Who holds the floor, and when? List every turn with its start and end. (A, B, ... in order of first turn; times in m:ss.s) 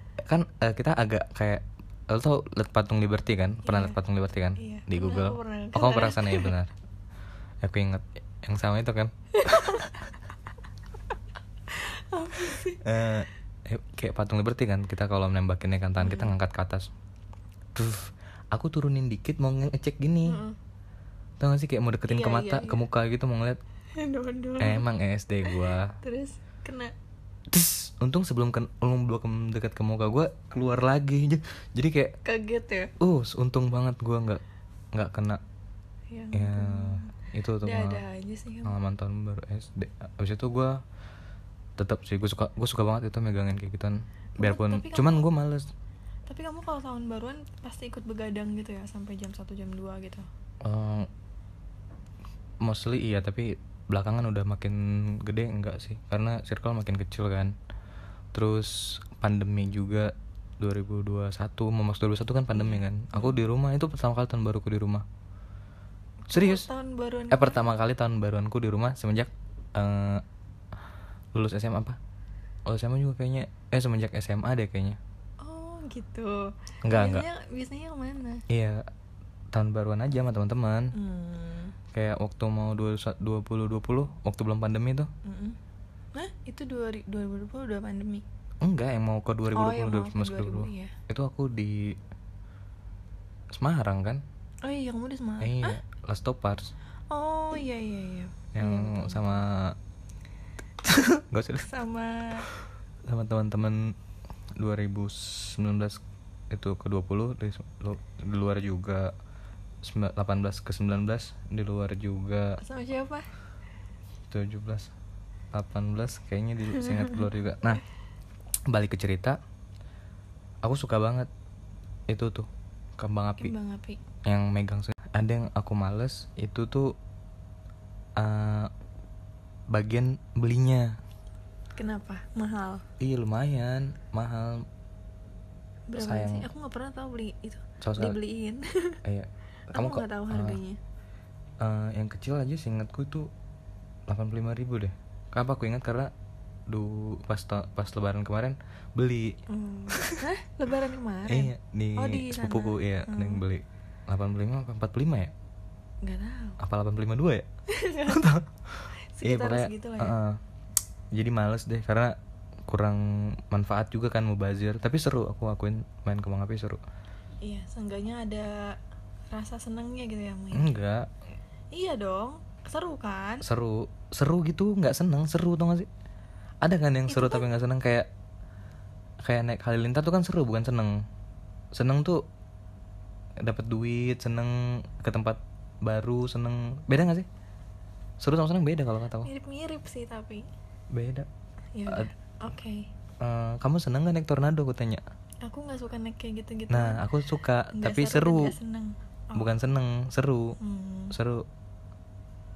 0:00.2-0:06.7 A
0:03.6-0:04.0 B
0:04.6-0:06.5 B
0:07.6-0:09.9 A
0:09.3-0:10.1 B
0:11.7-0:12.8 B
0:12.8-0:16.9 A
0:16.0-0:16.3 B
0:17.7-0:20.4 A
0:20.2-0:20.6 B
0:21.4-0:23.6 A
0:22.1-0:22.8 B
0:24.0-0:24.9 B
0:24.6-0:25.9 A
0:25.4-0:26.9 B
0:27.5-0:32.2 A
0:32.2-0:32.9 B
0:33.0-0:34.4 A
0:34.9-0:35.4 A
0:36.1-0:38.8 B
0:36.3-0:38.0 A
0:38.6-0:40.8 A
0:41.8-0:45.7 A
0:44.4-0:45.3 B
0:46.3-0:50.3 B
0:50.6-0:51.1 A
0:52.6-0:57.5 A
0:58.3-1:05.0 A
1:02.5-1:03.4 B
1:06.3-1:07.6 B
1:06.3-1:06.7 A
1:07.3-1:10.2 A
1:11.3-1:12.0 A
1:12.6-1:15.0 A
1:15.4-1:18.4 B
1:16.8-1:17.2 A
1:18.5-1:18.8 A
1:19.5-1:20.9 A
1:20.9-1:21.7 B
1:21.9-1:25.1 A
1:25.2-1:25.6 B
1:26.1-1:28.2 B
1:28.6-1:32.0 A
1:29.5-1:30.9 B
1:33.5-1:34.2 A
1:34.6-1:35.8 B
1:35.4-1:36.7 A
1:37.1-1:39.4 B
1:38.5-1:39.8 A
1:40.8-1:41.7 A
1:41.6-1:42.5 B
1:43.0-1:44.0 A
1:44.6-1:49.1 A
1:49.8-1:52.6 A
1:52.6-1:53.2 B
1:54.3-1:54.9 A
1:55.5-1:57.8 A
1:56.7-1:57.2 B
1:58.7-1:59.4 A
2:00.6-2:01.3 A
2:02.1-2:03.5 A
2:03.4-2:04.0 B
2:04.2-2:06.9 A
2:08.2-2:08.7 A
2:09.7-2:11.0 A
2:11.8-2:12.8 B
2:13.0-2:14.6 A
2:15.9-2:19.0 B
2:16.0-2:16.5 A
2:17.8-2:18.2 A
2:19.0-2:20.6 A
2:19.7-2:20.8 B
2:21.6-2:23.3 A
2:24.1-2:26.1 A
2:26.7-2:29.4 A
2:29.5-2:33.4 B
2:29.9-2:30.2 A
2:31.3-2:35.3 A
2:36.0-2:36.6 B
2:36.6-2:37.5 A
2:37.7-2:38.3 B
2:38.0-2:40.4 A
2:39.1-2:40.2 B
2:41.1-2:46.8 A
2:47.4-2:48.8 B
2:49.3-2:50.7 B
2:50.5-2:51.1 A
2:51.7-2:53.4 B
2:53.4-2:55.9 A
2:56.6-2:58.1 A
2:57.1-2:57.5 B
2:59.2-3:01.0 A
3:01.7-3:02.2 A
3:03.4-3:07.3 A
3:08.2-3:09.3 A
3:09.2-3:10.4 B
3:10.9-3:11.3 A
3:11.8-3:12.9 B
3:13.2-3:15.0 A
3:15.4-3:17.0 B
3:16.7-3:18.5 A
3:17.7-3:19.5 B
3:19.3-3:20.6 A
3:20.6-3:21.1 B
3:21.1-3:21.5 A